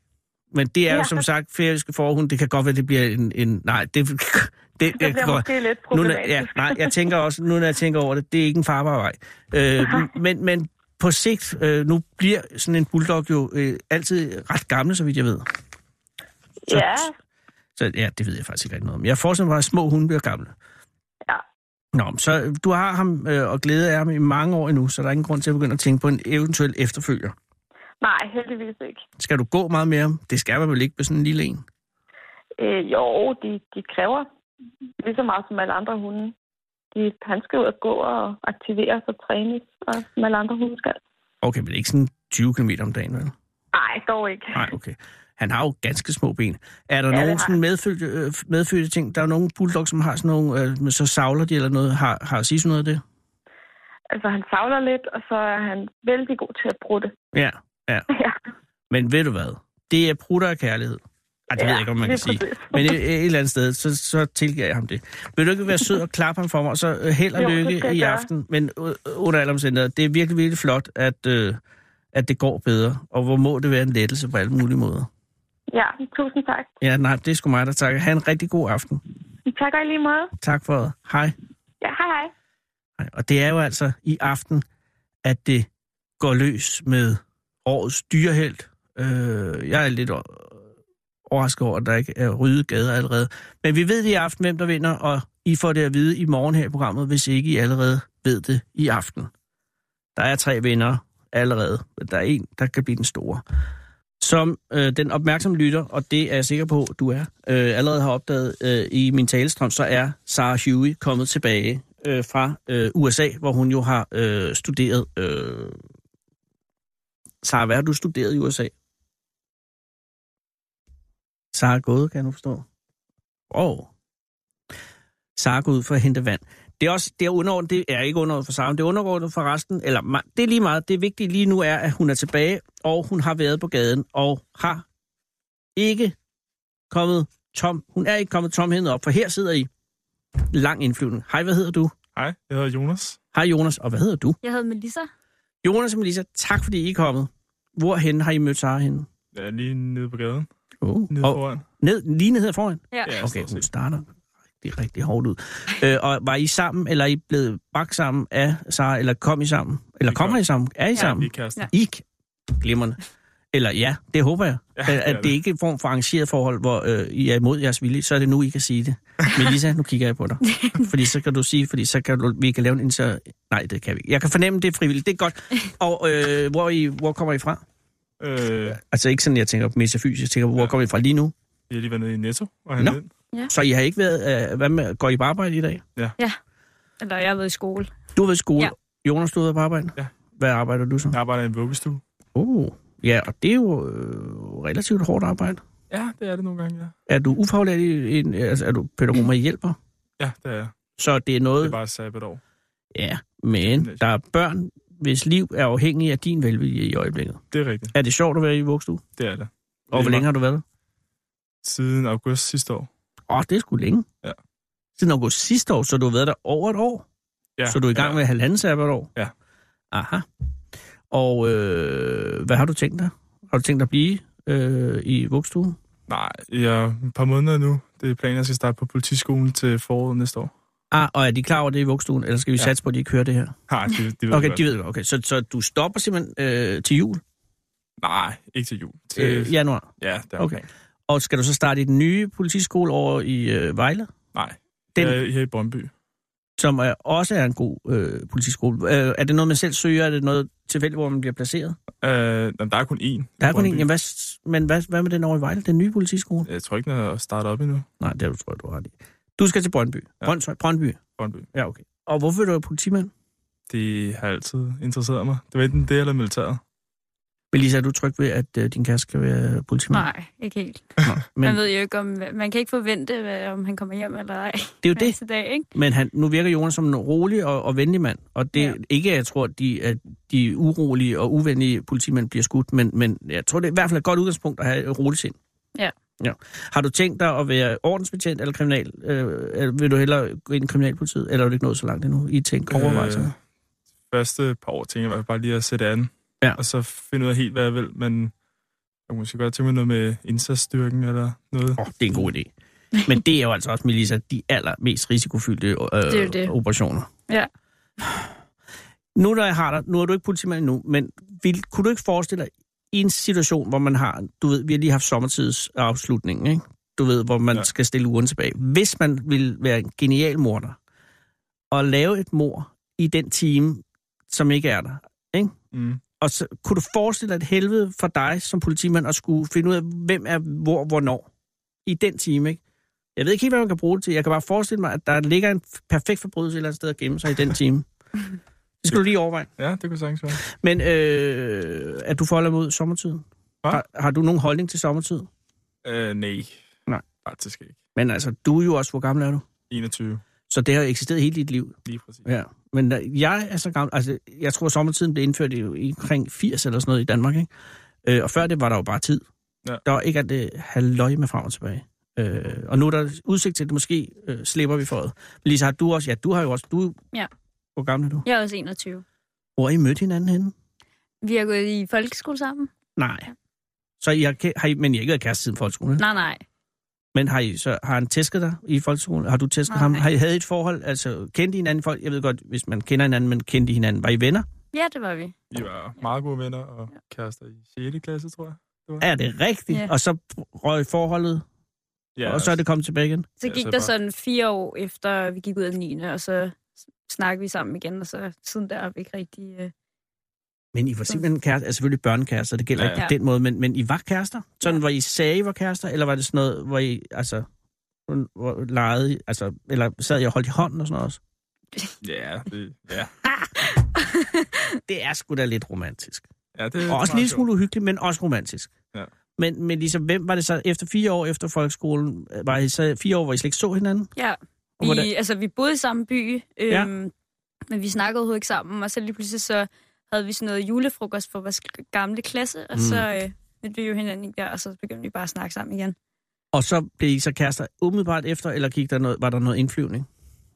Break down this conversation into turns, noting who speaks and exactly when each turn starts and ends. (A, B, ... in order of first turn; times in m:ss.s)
0:00.5-0:15.5 A
0:00.9-0:01.2 B
0:04.9-0:07.0 B
0:09.8-0:10.1 B
0:16.7-0:17.1 B
0:16.7-0:17.1 A
0:17.8-0:20.5 A
0:21.9-0:27.4 A
0:28.0-0:29.0 B
0:29.2-0:31.6 A
0:32.6-0:34.3 B
0:35.0-0:36.3 B
0:36.9-0:41.0 B
0:41.4-0:43.3 A
0:43.7-0:44.7 B
0:44.5-0:53.0 A
0:47.1-0:47.6 B
0:54.1-0:57.2 B
0:57.3-0:58.1 A
0:58.1-0:58.4 B
0:58.9-1:11.6 A
1:01.6-1:03.0 B
1:07.4-1:08.3 B
1:12.1-1:15.1 A
1:15.7-1:16.7 B
1:16.8-1:19.0 A
1:19.5-1:20.3 B
1:20.4-1:21.4 A
1:21.8-1:22.3 B
1:23.0-1:24.6 A
1:25.2-1:25.7 A
1:26.2-1:30.6 A
1:31.3-1:39.3 A
1:40.2-1:43.4 A
1:44.2-1:55.8 A
1:57.4-1:58.7 A
2:01.5-2:02.6 A
2:03.5-2:03.9 A
2:05.4-2:14.8 A
2:15.8-2:16.2 A
2:16.9-2:19.7 A
2:20.5-2:21.9 A
2:22.2-2:23.2 C
2:23.3-2:24.4 A
2:24.4-2:25.1 D
2:25.6-2:29.1 A
2:29.3-2:30.5 C
2:30.8-2:34.1 A
2:31.1-2:31.6 C
2:32.9-2:33.2 D
2:33.0-2:33.7 C
2:34.6-2:43.0 A
2:40.1-2:40.4 C
2:41.0-2:41.7 C
2:41.0-2:41.7 D
2:43.5-2:57.6 A
2:44.8-2:45.4 C
2:50.5-2:50.8 D
2:58.2-2:58.8 C
2:58.8-3:01.3 A
3:01.7-3:03.1 C
3:03.5-3:05.8 A
3:07.0-3:07.9 D
3:08.2-3:11.2 A
3:11.1-3:12.0 C
3:12.4-3:15.6 A
3:15.9-3:17.0 C
3:17.1-3:19.8 A
3:20.2-3:20.8 C
3:21.0-3:21.8 A
3:21.6-3:22.4 C
3:23.0-3:29.0 A
3:23.6-3:24.0 C
3:27.5-3:28.0 C
3:29.2-3:30.3 C
3:29.9-3:30.6 A
3:31.6-3:32.9 C
3:33.3-3:34.1 A
3:35.0-3:37.0 A
3:37.6-3:38.2 C
3:37.7-3:39.1 A
3:39.9-3:40.2 A
3:41.1-3:45.8 A
3:46.1-3:50.5 C
3:50.9-3:53.5 A
3:53.7-3:54.7 C
3:54.3-3:57.2 A
3:58.0-4:00.7 C
3:59.2-4:04.1 A
4:04.4-4:05.9 C
4:06.6-4:11.8 A
4:12.0-4:13.9 C
4:13.4-4:16.5 A
4:16.5-4:17.9 C
4:18.0-4:21.0 A
4:21.2-4:21.5 C
4:21.5-4:23.1 A
4:23.7-4:26.6 C
4:27.5-4:30.1 A
4:29.9-4:35.7 D
4:31.0-4:31.6 A
4:34.8-4:35.2 A
4:35.7-4:45.4 A
4:46.2-4:53.3 A
4:52.7-4:53.4 C
4:54.1-4:58.3 C
4:59.1-5:02.3 C
5:01.8-5:02.5 A
5:03.0-5:07.1 A
5:06.1-5:06.5 D
5:09.2-5:20.8 A
5:21.7-5:25.6 A
5:25.7-5:26.0 C
5:26.2-5:31.3 A
5:31.9-5:32.6 A
5:33.2-5:37.8 A
5:38.8-5:39.5 A
5:38.9-5:40.4 C
5:40.4-5:45.3 A
5:45.8-5:46.6 C
5:47.2-5:47.8 C
5:48.0-5:49.5 A
5:49.7-5:50.2 C
5:50.5-5:57.5 A
5:51.9-5:52.3 C
5:58.0-5:59.2 A
5:59.8-6:07.0 A
6:07.8-6:08.3 A
6:08.2-6:09.0 D
6:09.6-6:10.5 A
6:11.2-6:12.7 D
6:13.0-6:13.3 A
6:14.0-6:16.0 A
6:16.0-6:16.4 D
6:17.2-6:24.5 A
6:19.7-6:20.1 D
6:24.7-6:25.4 D
6:25.5-6:29.1 C
6:29.0-6:31.4 A
6:32.2-6:32.6 C
6:32.2-6:33.3 A
6:33.4-6:39.7 D
6:33.4-6:33.9 C
6:40.7-6:47.5 A
6:42.8-6:43.1 C
6:48.1-6:51.2 A
6:52.0-6:53.1 C
6:54.0-6:54.8 D
6:54.9-6:56.2 A
6:56.6-6:57.5 C
6:56.9-6:58.7 A
6:59.4-7:04.1 A
7:04.2-7:07.1 D
7:04.8-7:05.1 A
7:07.7-7:16.0 D
7:12.8-7:13.0 A
7:16.5-7:20.1 A